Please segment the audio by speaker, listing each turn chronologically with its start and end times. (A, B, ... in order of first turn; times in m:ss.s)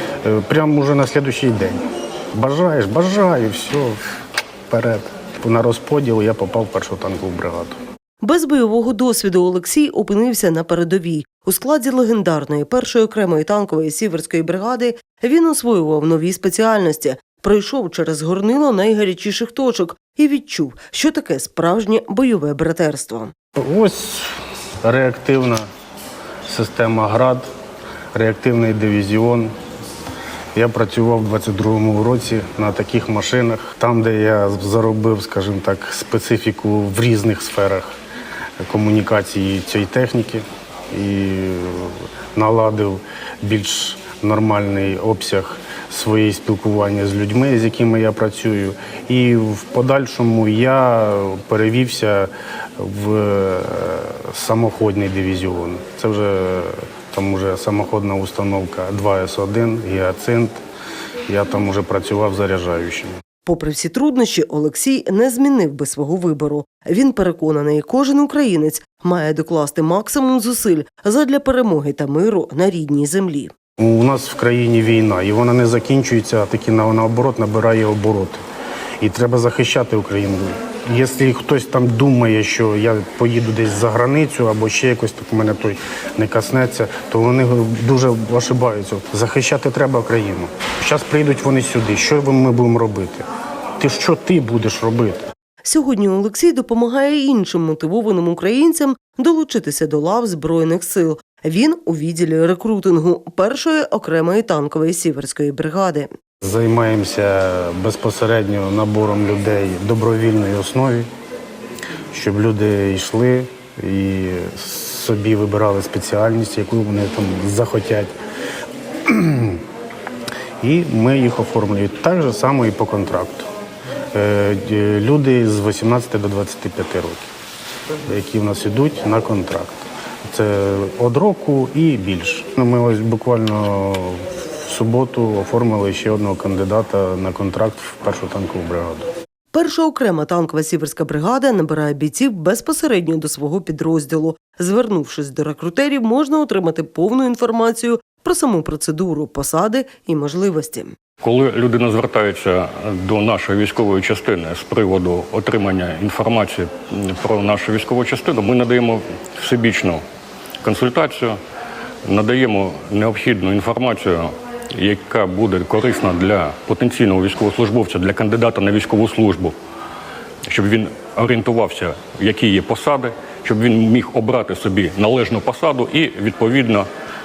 0:00.2-0:01.8 A
0:02.4-0:04.0 A
0:04.7-0:07.8 A
0:08.2-0:23.3 B
0:23.6-0:25.7 A
0:26.5-0:27.4 A
0:28.1-0:29.5 A
0:30.6-0:38.0 A
0:38.7-1:00.6 A
1:01.3-1:03.1 A
1:03.4-1:13.5 B
1:13.8-1:18.4 A
1:19.0-1:33.3 A
1:33.8-1:35.2 A
1:35.6-1:46.1 B
1:46.4-1:51.1 A
1:52.1-1:58.1 A
1:59.1-1:59.6 A
2:00.6-2:03.5 A
2:04.1-2:07.3 A
2:08.1-2:19.1 A
2:19.5-2:31.0 B
2:31.2-2:40.0 C
2:40.6-2:41.4 C
2:42.0-2:49.6 C
2:50.5-2:56.9 C